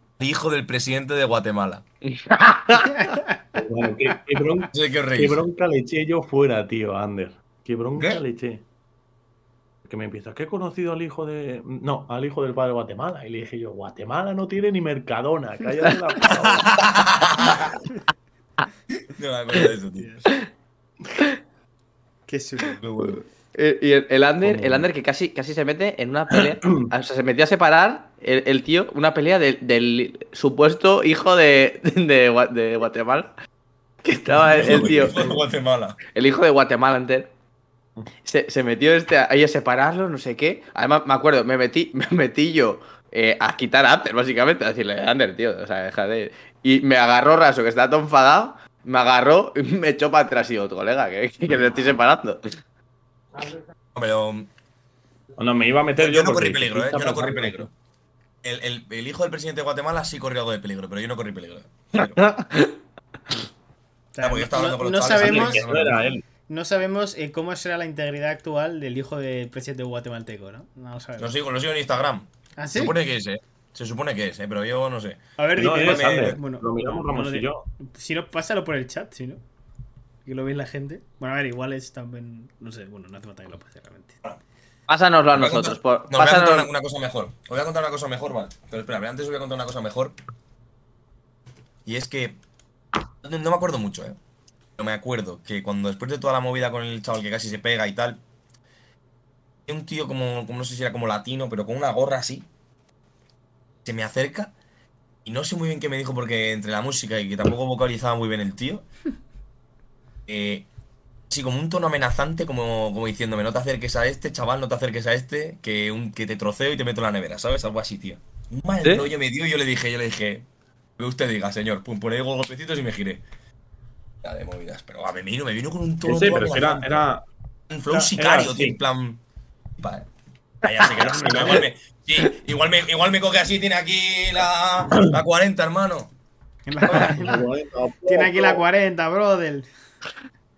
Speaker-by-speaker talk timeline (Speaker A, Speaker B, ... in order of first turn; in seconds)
Speaker A: 0.2-1.8, 4.7-5.4, 16.3-17.8, 19.1-20.3, 22.8-23.2, 34.4-36.0, 53.9-54.5, 56.0-57.7, 58.4-62.2, 64.2-66.2, 71.2-75.2, 75.8-76.4, 85.3-90.2, 91.8-92.4, 93.2-94.2, 94.8-98.2, 99.7-102.5, 103.8-104.5, 105.2-108.9, 110.3-110.7, 111.3-120.5, 121.0-123.2, 124.2-127.0, 127.7-129.2, 129.8-130.1, 130.6-136.1
Speaker B: 2.0-3.1, 23.0-33.3, 34.0-35.3, 36.1-37.3, 38.2-52.4, 62.0-62.7, 84.9-86.7, 131.0-131.6
Speaker C: 2.9-3.4, 22.3-22.8, 64.1-65.7, 66.5-71.3, 72.6-73.0, 75.4-79.4, 80.2-84.2, 136.7-137.4, 138.1-139.7
Speaker D: 3.5-8.6, 9.8-16.8, 24.4-24.9, 26.3-26.9, 34.3-35.4, 55.4-57.7, 65.1-66.2, 75.6-77.7, 126.0-127.2, 127.9-128.8, 130.9-131.7, 136.9-138.6